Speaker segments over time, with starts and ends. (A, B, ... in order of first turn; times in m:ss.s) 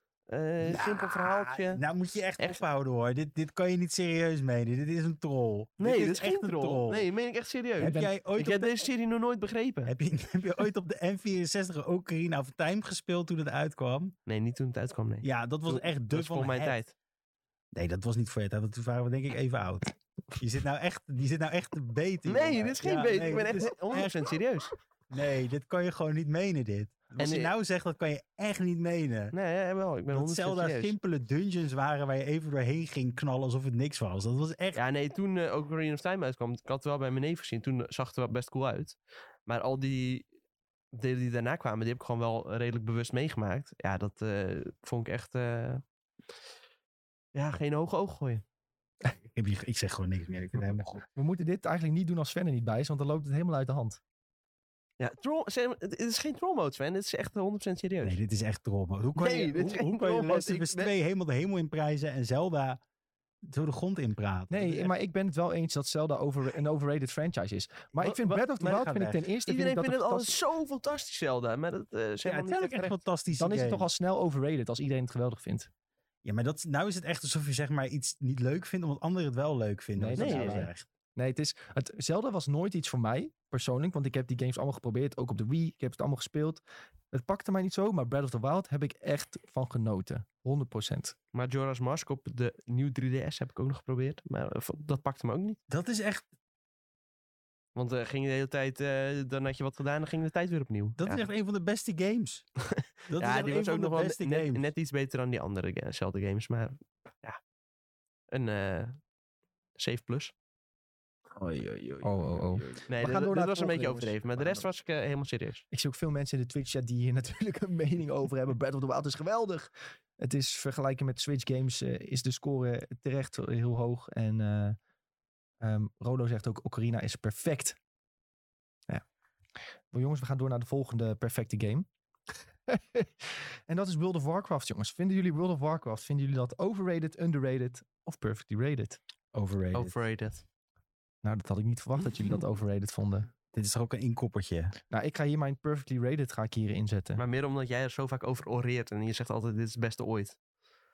0:00.3-0:01.8 A
0:00.6-0:07.1 B
0:05.8-0:09.9 A
0:07.8-0:08.7 B
0:07.8-0:08.1 C
0:09.8-0:14.1 B
0:14.2-0:16.9 A
0:15.2-0:16.8 B
0:17.7-0:24.3 B
0:22.2-0:24.7 A
0:25.1-0:29.3 B
0:27.2-0:27.5 A
0:29.3-0:30.9 A
0:30.1-0:34.8 B
0:34.7-0:40.3 A
0:40.9-0:45.8 A
0:47.3-0:48.4 A
0:49.2-0:51.0 B
0:51.1-0:54.0 C
0:55.0-0:58.2 A
0:58.0-1:02.8 B
0:59.2-1:00.9 A
1:03.4-1:04.9 B
1:04.5-1:10.4 C
1:08.0-1:08.8 A
1:08.6-1:09.3 B
1:09.4-1:13.0 A
1:12.2-1:13.9 B
1:13.4-1:15.7 C
1:16.2-1:20.8 B
1:20.0-1:31.2 C
1:20.2-1:20.7 A
1:31.3-1:35.6 A
1:35.7-1:36.2 B
1:37.7-1:41.2 A
1:41.0-1:42.5 B
1:42.6-1:47.4 A
1:43.1-1:44.7 B
1:48.3-1:49.0 A
1:49.8-1:50.3 A
1:51.4-1:52.8 B
1:52.0-1:54.7 C
1:52.9-1:55.6 A
1:55.7-2:04.8 C
2:05.6-2:07.8 C
2:09.9-2:11.9 C
2:12.7-2:19.0 C
2:19.3-2:20.0 B
2:19.7-2:20.4 A
2:21.2-2:23.3 C
2:23.5-2:24.8 B
2:24.9-2:27.2 C
2:27.2-2:30.4 A